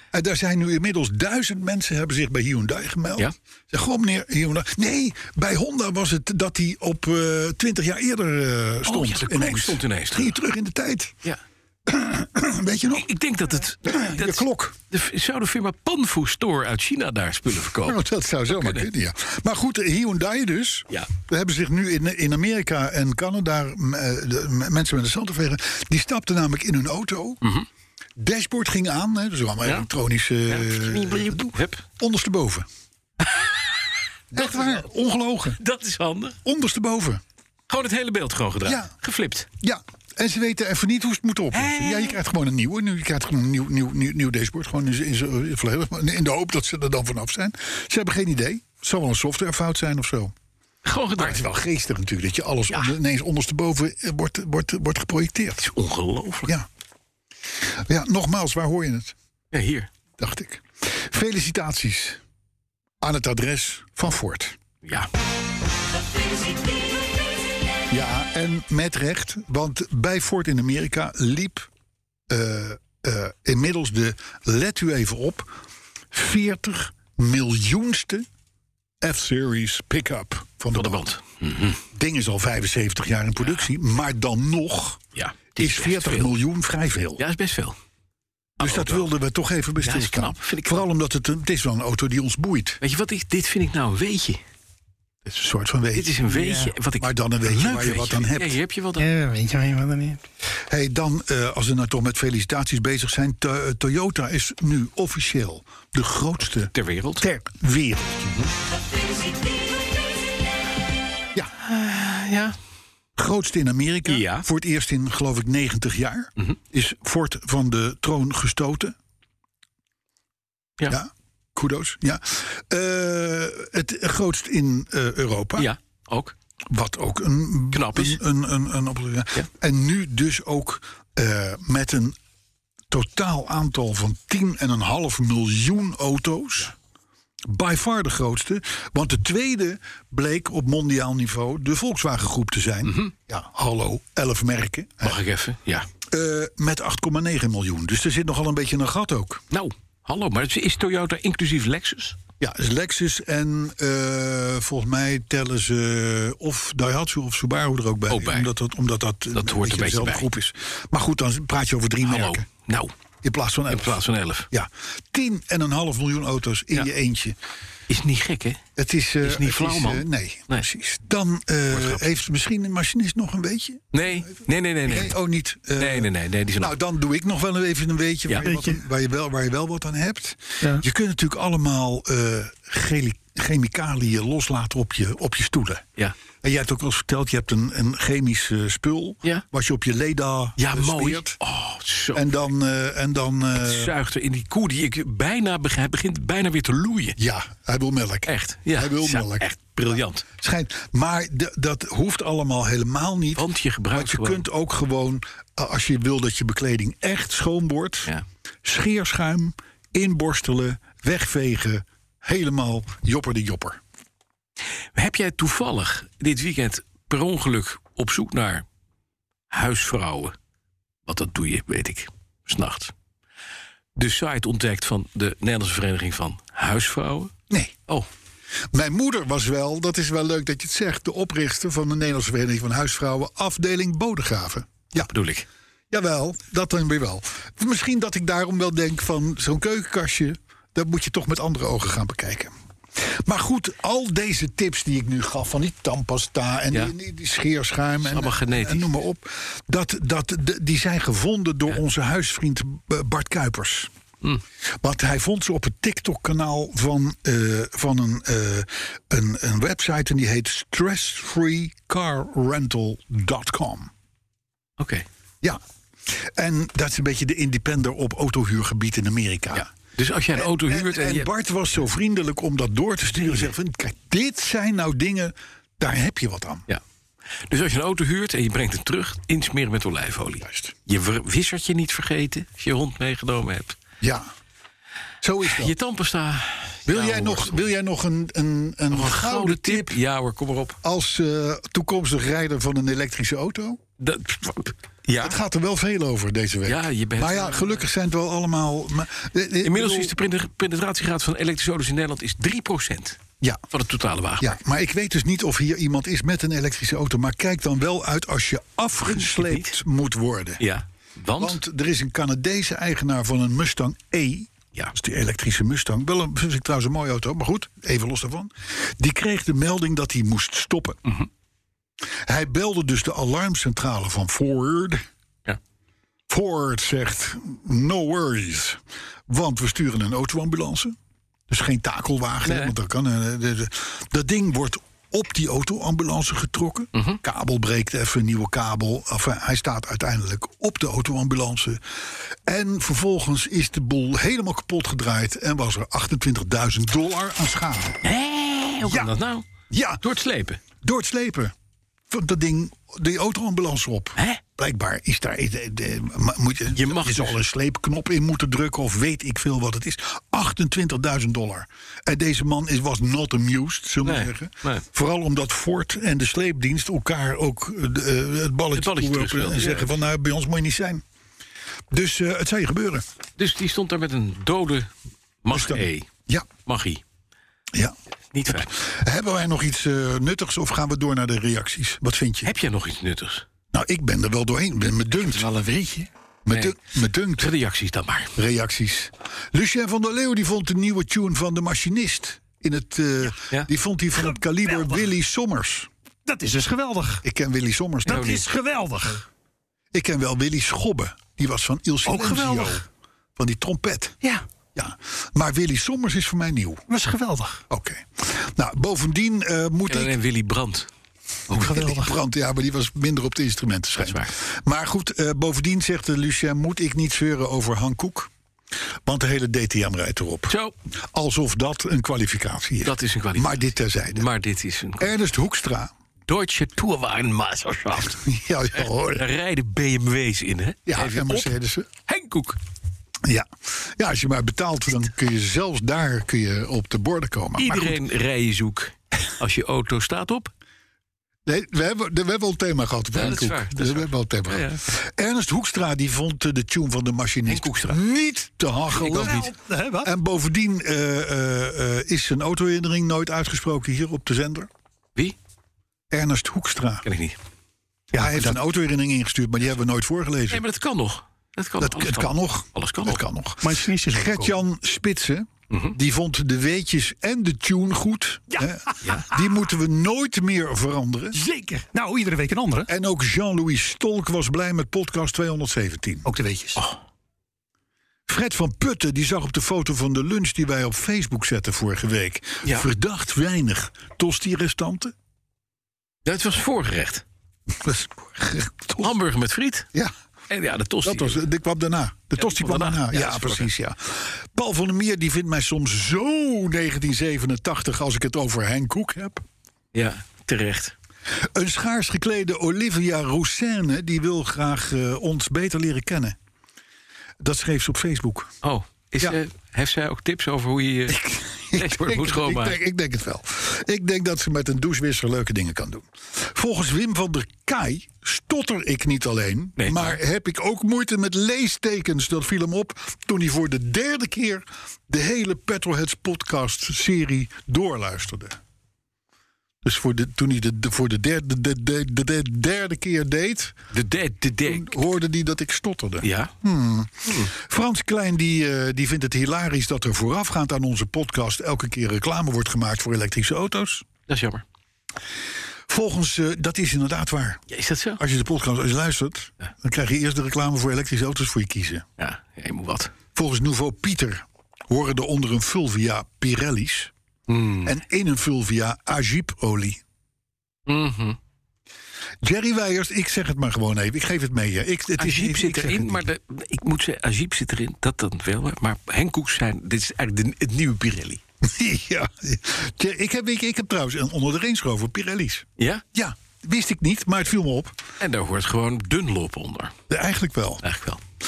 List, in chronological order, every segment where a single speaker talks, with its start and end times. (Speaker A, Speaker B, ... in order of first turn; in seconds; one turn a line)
Speaker A: 0.1-11.2
Speaker B: 8.9-10.4
Speaker A: 11.9-13.1
Speaker B: 12.9-18.9
Speaker A: 13.8-14.8
Speaker A: 17.8-27.4
Speaker A: 28.2-32.7
Speaker B: 30.5-31.8
Speaker B: 33.2-33.7
Speaker A: 34.3-35.6
Speaker B: 34.3-34.8
Speaker B: 35.6-36.4
Speaker A: 36.5-37.2
Speaker B: 37.7-39.5
Speaker A: 38.6-38.9
Speaker A: 39.6-50.3
Speaker B: 41.5-42.2
Speaker B: 50.9-51.4
Speaker A: 51.2-55.7
Speaker B: 55.6-56.5
Speaker A: 57.7-59.1
Speaker B: 59.5-59.9
Speaker A: 60.2-62.2
Speaker A: 63.0-64.6
Speaker B: 64.8-65.1
Speaker A: 67.9-71.7
Speaker A: 72.3-75.5
Speaker A: 76.1-78.3
Speaker A: 79.0-81.0
Speaker B: 80.7-81.8
Speaker A: 81.9-85.0
Speaker B: 83.4-83.7
Speaker B: 85.2-86.3
Speaker A: 85.6-87.2
Speaker B: 87.2-87.8
Speaker A: 88.6-92.8
Speaker B: 88.6-89.1
Speaker B: 89.8-90.9
Speaker B: 92.8-94.4
Speaker A: 95.3-96.2
Speaker B: 95.9-99.1
Speaker C: 96.3-96.7
Speaker A: 97.0-98.6
Speaker C: 99.0-100.2
Speaker A: 100.7-108.4
Speaker B: 106.5-107.3
Speaker B: 111.6-112.6
Speaker A: 113.2-119.0
Speaker B: 114.1-114.5
Speaker A: 120.9-125.7
Speaker B: 125.6-126.3
Speaker A: 126.7-132.2
Speaker B: 127.7-128.2
Speaker A: 132.9-136.7
Speaker A: 137.5-145.2
Speaker B: 142.8-143.1
Speaker B: 145.0-145.9
Speaker A: 146.1-149.4
Speaker B: 149.5-152.2
Speaker A: 152.4-162.5
Speaker B: 158.1-158.5
Speaker B: 159.3-160.3
Speaker B: 162.0-162.9
Speaker A: 163.2-167.4
Speaker B: 163.7-164.5
Speaker B: 167.9-168.6
Speaker A: 168.8-185.8
Speaker B: 169.2-170.7
Speaker B: 171.7-172.0
Speaker B: 173.9-175.1
Speaker B: 175.8-176.7
Speaker C: 178.4-178.8
Speaker A: 186.4-191.4
Speaker B: 190.6-192.4
Speaker A: 192.1-193.9
Speaker B: 193.6-197.2
Speaker A: 197.2-199.5
Speaker B: 198.3-200.3
Speaker A: 200.4-208.1
Speaker B: 203.3-204.4
Speaker A: 208.6-213.8
Speaker B: 214.9-218.7
Speaker B: 219.5-220.3
Speaker B: 221.1-222.9
Speaker B: 224.0-227.3
Speaker A: 228.7-235.1
Speaker B: 235.0-235.5
Speaker A: 235.9-253.9
Speaker B: 248.0-248.9
Speaker A: 254.8-263.9
Speaker B: 264.8-265.1
Speaker A: 265.4-269.7
Speaker B: 269.5-271.3
Speaker A: 270.4-276.6
Speaker B: 277.5-283.8
Speaker A: 280.4-280.7
Speaker A: 284.0-284.3
Speaker A: 285.2-285.7
Speaker B: 285.4-287.7
Speaker A: 286.9-290.0
Speaker B: 288.9-290.8
Speaker A: 290.8-293.8
Speaker B: 294.0-295.4
Speaker A: 295.2-300.1
Speaker B: 296.7-297.9
Speaker B: 299.6-303.2
Speaker B: 303.7-304.6
Speaker A: 304.4-310.6
Speaker B: 309.1-309.8
Speaker B: 310.6-311.6
Speaker A: 311.4-321.0
Speaker A: 322.3-325.0
Speaker A: 326.3-331.0
Speaker A: 331.5-348.0
Speaker B: 332.4-332.8
Speaker B: 336.9-337.2
Speaker B: 348.0-349.4
Speaker A: 348.8-349.1
Speaker A: 349.7-350.0
Speaker B: 350.0-350.6
Speaker A: 350.8-351.5
Speaker A: 352.1-371.0
Speaker B: 356.7-357.4
Speaker B: 364.0-364.9
Speaker B: 368.8-369.9
Speaker A: 371.9-373.1
Speaker B: 373.4-374.9
Speaker B: 375.4-376.1
Speaker A: 375.5-376.5
Speaker B: 376.6-377.0
Speaker B: 378.3-378.7
Speaker A: 378.5-382.5
Speaker B: 382.4-383.4
Speaker A: 383.7-385.5
Speaker C: 385.4-386.1
Speaker A: 386.5-387.5
Speaker B: 387.4-388.4
Speaker A: 388.4-395.9
Speaker C: 394.7-395.0
Speaker C: 396.3-397.2
Speaker A: 397.2-398.4
Speaker C: 398.1-399.2
Speaker B: 398.1-398.4
Speaker A: 399.9-402.8
Speaker C: 402.1-402.8
Speaker A: 403.4-404.2
Speaker A: 404.8-406.8
Speaker C: 406.9-407.6
Speaker A: 407.7-410.1
Speaker B: 409.9-410.9
Speaker A: 411.5-418.3
Speaker C: 411.5-412.1
Speaker B: 414.0-414.3
Speaker A: 419.1-420.6
Speaker B: 420.5-420.7
Speaker A: 421.1-424.3
Speaker B: 422.8-425.1
Speaker A: 425.0-425.9
Speaker B: 426.3-428.2
Speaker A: 428.0-429.3
Speaker B: 428.8-431.5
Speaker A: 430.9-431.9
Speaker B: 432.1-432.6
Speaker A: 433.2-438.0
Speaker B: 437.6-440.5
Speaker A: 441.5-454.7
Speaker B: 443.1-444.8
Speaker B: 447.5-448.0
Speaker C: 448.9-450.1
Speaker A: 456.1-457.1
Speaker B: 457.1-457.4
Speaker A: 458.1-460.6
Speaker B: 458.3-458.6
Speaker B: 460.5-463.2
Speaker A: 461.8-471.4
Speaker C: 463.6-464.6
Speaker B: 465.7-466.0
Speaker C: 468.6-469.4
Speaker C: 471.3-472.9
Speaker A: 472.9-476.3
Speaker C: 476.3-476.8
Speaker A: 478.3-485.1
Speaker B: 486.2-487.2
Speaker A: 487.7-489.1
Speaker B: 489.0-489.9
Speaker B: 490.5-491.4
Speaker A: 491.0-499.4
Speaker B: 492.4-493.7
Speaker B: 499.9-500.9
Speaker A: 501.5-506.4
Speaker A: 507.4-508.5
Speaker B: 508.6-511.2
Speaker A: 511.1-528.6
Speaker B: 511.7-512.8
Speaker B: 519.8-520.2
Speaker A: 529.8-533.8
Speaker B: 533.9-534.9
Speaker A: 534.6-544.1
Speaker B: 536.2-536.5
Speaker B: 537.3-537.5
Speaker B: 544.3-544.6
Speaker A: 545.9-547.6
Speaker B: 547.7-548.2
Speaker A: 548.2-552.0
Speaker B: 552.2-553.1
Speaker A: 553.4-557.1
Speaker B: 557.5-558.0
Speaker A: 557.8-560.0
Speaker B: 560.9-561.4
Speaker A: 562.4-566.3
Speaker B: 565.2-571.4
Speaker A: 571.6-578.0
Speaker B: 575.8-576.0
Speaker B: 578.2-580.0
Speaker A: 580.1-580.8
Speaker B: 580.8-581.2